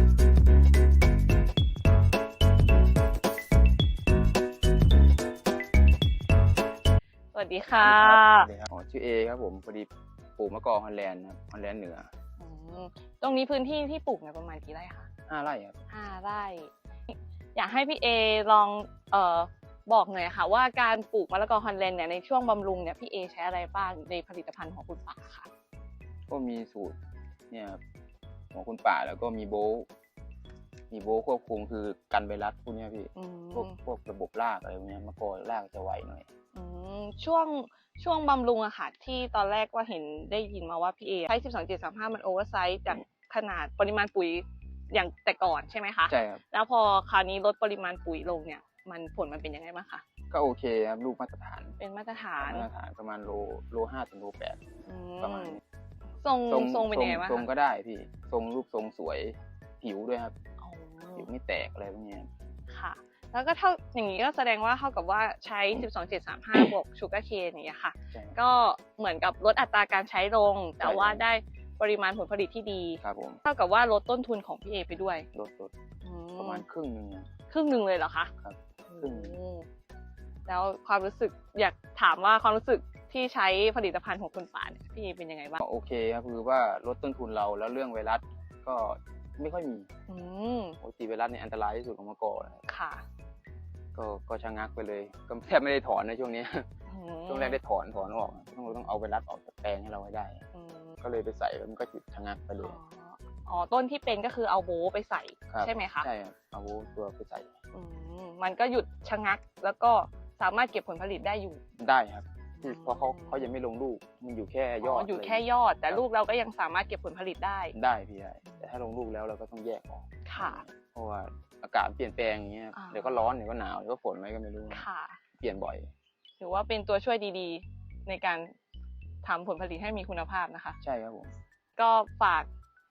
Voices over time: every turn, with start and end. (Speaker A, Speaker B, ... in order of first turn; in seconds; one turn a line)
Speaker A: 7.3-8.5
Speaker B: 7.8-12.1
Speaker A: 12.4-15.1
Speaker B: 15.3-15.8
Speaker A: 15.9-25.5
Speaker B: 26.3-26.9
Speaker B: 27.5-27.8
Speaker B: 28.5-29.9
Speaker B: 30.9-36.2
Speaker A: 33.1-33.8
Speaker A: 36.5-50.0
Speaker B: 46.1-46.4
Speaker B: 50.3-51.8
Speaker A: 51.8-52.7
Speaker B: 52.4-54.6
Speaker A: 54.9-55.6
Speaker B: 55.2-55.6
Speaker A: 56.2-57.5
Speaker B: 56.5-60.3
Speaker A: 60.6-61.3
Speaker B: 61.1-62.3
Speaker A: 62.7-75.2
Speaker B: 68.1-68.4
Speaker B: 70.8-71.2
Speaker B: 73.0-73.4
Speaker B: 75.3-75.7
Speaker A: 76.0-76.6
Speaker B: 76.4-77.3
Speaker A: 77.5-78.3
Speaker B: 78.4-79.4
Speaker A: 78.9-79.7
Speaker A: 80.5-85.6
Speaker B: 85.6-89.9
Speaker A: 90.1-90.8
Speaker B: 90.8-92.6
Speaker A: 92.7-93.0
Speaker B: 93.9-96.7
Speaker A: 96.9-97.6
Speaker B: 97.3-100.4
Speaker A: 100.5-100.9
Speaker B: 101.0-102.8
Speaker A: 102.6-106.1
Speaker B: 105.5-107.5
Speaker A: 107.7-111.6
Speaker B: 111.8-116.0
Speaker A: 112.6-113.5
Speaker A: 114.8-117.7
Speaker B: 117.7-124.8
Speaker A: 118.4-118.7
Speaker A: 120.2-120.6
Speaker A: 122.7-123.3
Speaker A: 124.7-125.2
Speaker B: 125.4-125.9
Speaker A: 126.4-128.5
Speaker A: 129.2-130.8
Speaker B: 130.8-131.3
Speaker A: 131.8-132.5